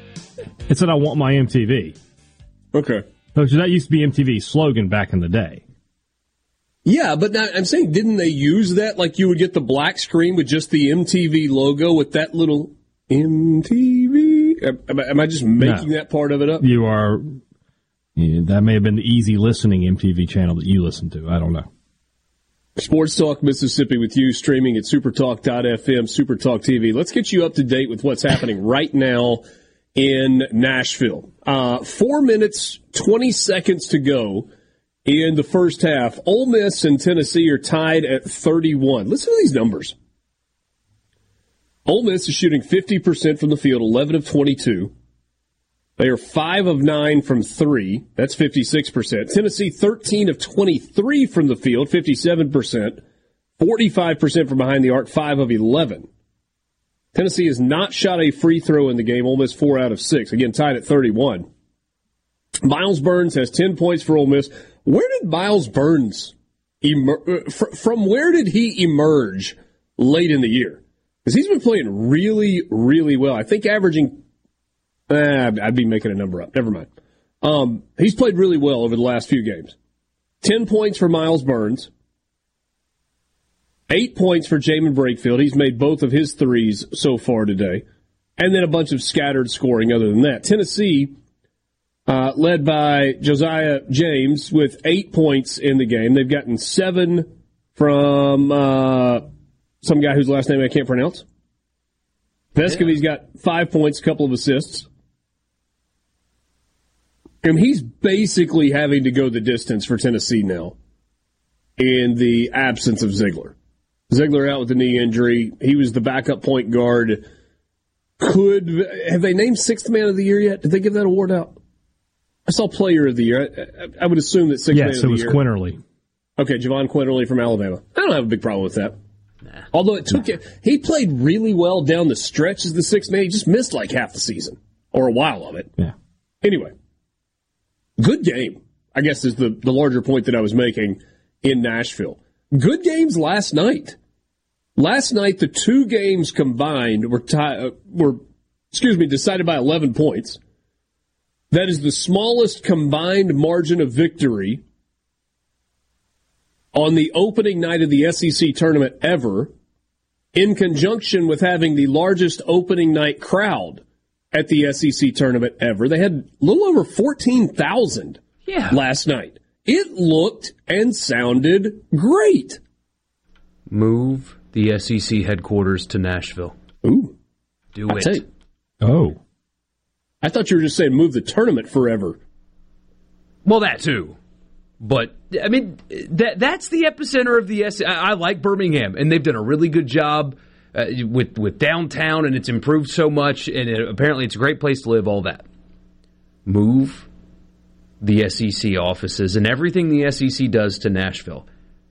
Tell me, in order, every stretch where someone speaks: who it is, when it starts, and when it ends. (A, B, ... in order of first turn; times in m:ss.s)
0:00.7-0:02.0 A
0:02.7-0:03.0 B
0:03.4-0:05.6 A
0:06.8-0:16.7 B
0:15.6-0:15.9 A
0:16.6-0:17.4 A
0:18.2-0:21.7 A
0:22.8-0:29.4 B
0:30.0-0:34.5 B
0:35.1-0:40.0 B
0:41.9-0:44.9 B
0:46.0-0:53.0 B
0:53.6-0:56.1 B
0:57.1-1:01.5 B
1:02.6-1:14.2 B
1:15.1-1:16.9 B
1:17.4-1:19.8 B
1:20.4-1:21.9 B
1:23.9-1:27.8 B
1:28.4-1:31.2 B
1:32.1-1:39.2 B
1:39.8-1:41.2 B
1:42.6-1:44.9 B
1:47.4-1:50.8 B
1:51.8-1:53.6 B
1:54.1-1:57.2 B
1:58.2-2:01.6 B
2:02.5-2:05.4 B
2:04.7-2:05.8 A
2:06.4-2:09.0 B
2:09.7-2:15.7 B
2:16.4-2:16.7 B
2:18.0-2:24.0 B
2:24.8-2:28.2 B
2:28.7-2:30.4 B
2:31.5-2:34.6 B
2:36.7-2:39.5 B
2:40.3-2:43.8 B
2:44.3-2:52.6 B
2:48.5-2:48.8 C
2:53.7-2:56.6 C
2:56.8-2:57.1 B
2:57.8-2:58.2 C
2:57.9-2:58.2 B
2:58.8-2:59.2 A
3:00.2-3:02.2 B
3:03.4-3:04.2 C
3:04.8-3:15.5 C
3:16.5-3:17.1 C
3:18.0-3:21.5 C